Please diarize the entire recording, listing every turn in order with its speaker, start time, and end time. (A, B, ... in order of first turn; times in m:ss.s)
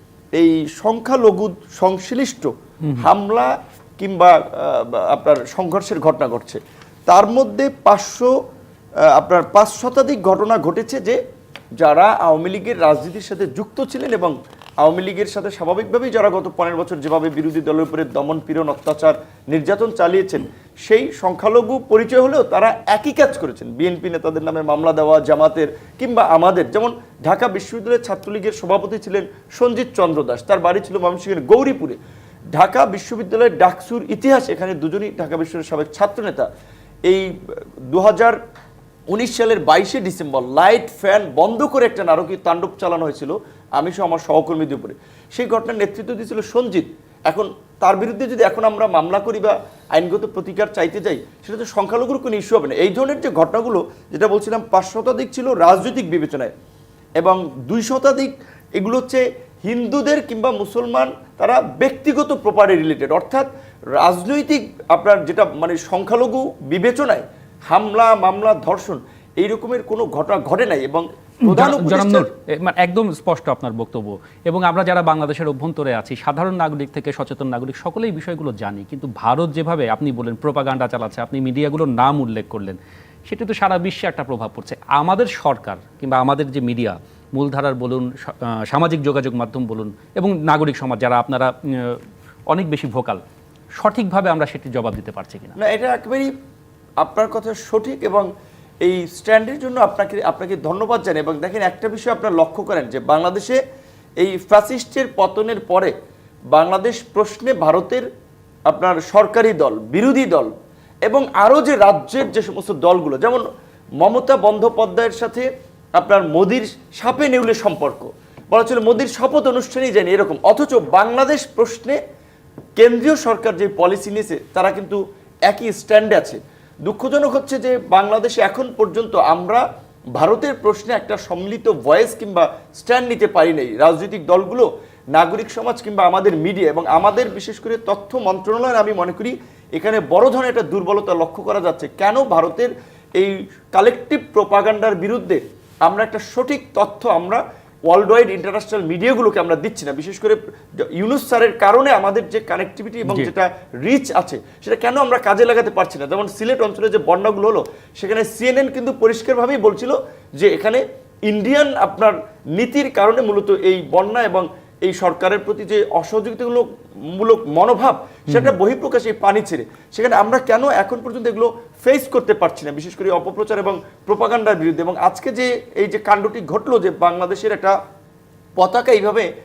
0:00.4-0:08.3 A
0:02.8-0:03.1 B
0:09.2-0:11.2 A
0:11.8-0:32.0 A
0:32.6-0:36.5 A
0:37.1-0:38.4 A
0:39.1-0:56.5 A
0:57.2-1:12.3 A
1:11.4-1:33.2 B
1:33.8-1:35.6 B
1:35.6-1:36.3 A
1:37.0-1:38.3 A
1:38.8-1:43.6 A
1:44.2-1:45.9 A
1:46.5-1:48.1 A
1:48.7-1:50.5 A
1:51.1-1:53.4 A
1:54.0-2:02.0 A
2:02.8-2:09.6 A
2:10.2-2:57.7 A
2:48.3-2:48.6 B
2:58.6-2:59.3 A